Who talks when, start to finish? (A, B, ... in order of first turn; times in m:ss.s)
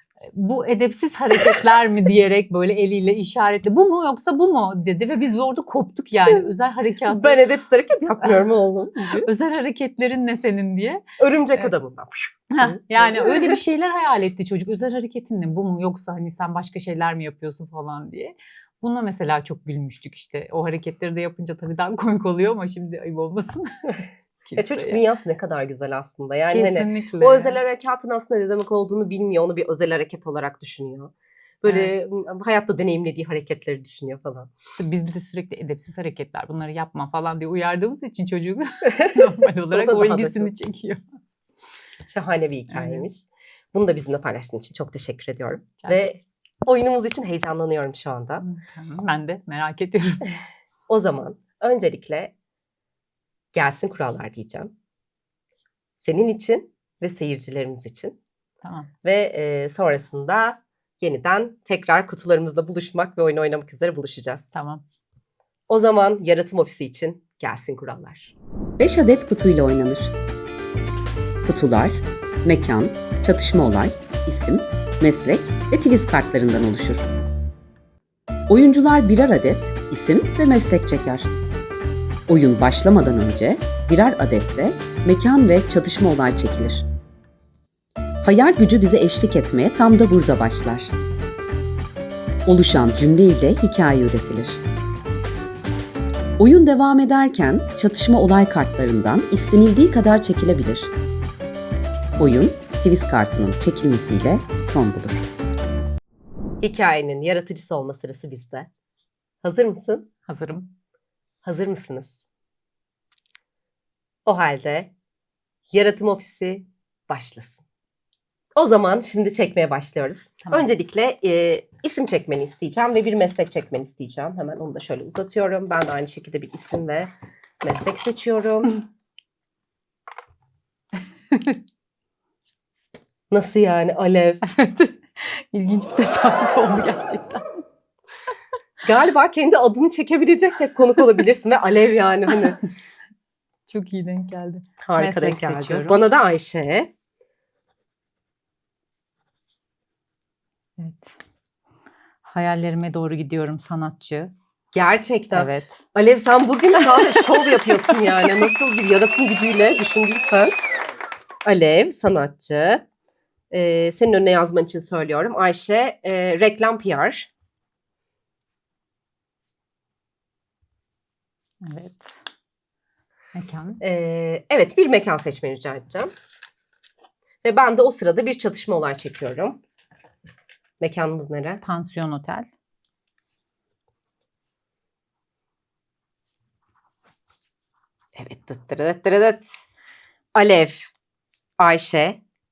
0:00.3-0:07.4 A
0:07.1-0:09.3 B
0:09.2-0:11.0 A
0:11.2-0:13.6 B
0:12.5-0:25.0 A
0:24.6-0:34.5 B
0:26.5-0:27.6 A
0:31.7-0:31.9 A
0:34.8-0:41.0 A
0:39.7-0:40.5 B
0:42.1-0:48.4 B
0:42.7-0:43.1 A
0:48.4-0:50.3 A
0:50.9-0:52.3 B
0:53.6-0:54.7 B
0:56.0-0:58.2 B
0:58.6-0:58.9 A
0:59.0-1:04.5 B
1:04.5-1:04.8 A
1:05.7-1:08.4 B
1:08.8-1:10.1 C
1:11.5-1:17.1 C
1:18.5-1:21.3 C
1:22.3-1:26.9 C
1:28.2-1:30.9 C
1:32.5-1:34.6 C
1:36.4-1:40.9 C
1:42.2-1:45.3 C
1:46.6-1:48.7 B
1:49.4-1:50.1 B
1:50.3-1:50.7 A
1:51.4-1:52.2 B
1:54.3-1:54.9 B
1:55.7-1:57.6 B
1:58.6-2:08.8 B
2:11.3-2:11.6 A
2:13.3-2:14.4 B
2:14.5-2:17.4 A
2:18.8-2:22.6 B
2:23.7-2:26.0 A
2:24.8-2:26.9 B
2:30.8-2:31.2 A
2:32.2-2:34.3 A
2:34.7-2:40.6 B
2:35.3-2:35.8 A
2:41.4-2:42.8 B
2:43.5-2:47.3 B
2:51.6-2:52.1 A
2:53.4-2:53.8 A
2:53.8-2:56.1 B
2:57.4-2:59.6 B
3:00.8-3:01.6 B
3:01.6-3:02.5 A
3:08.2-3:09.7 B
3:10.4-3:10.9 B
3:11.6-3:12.2 B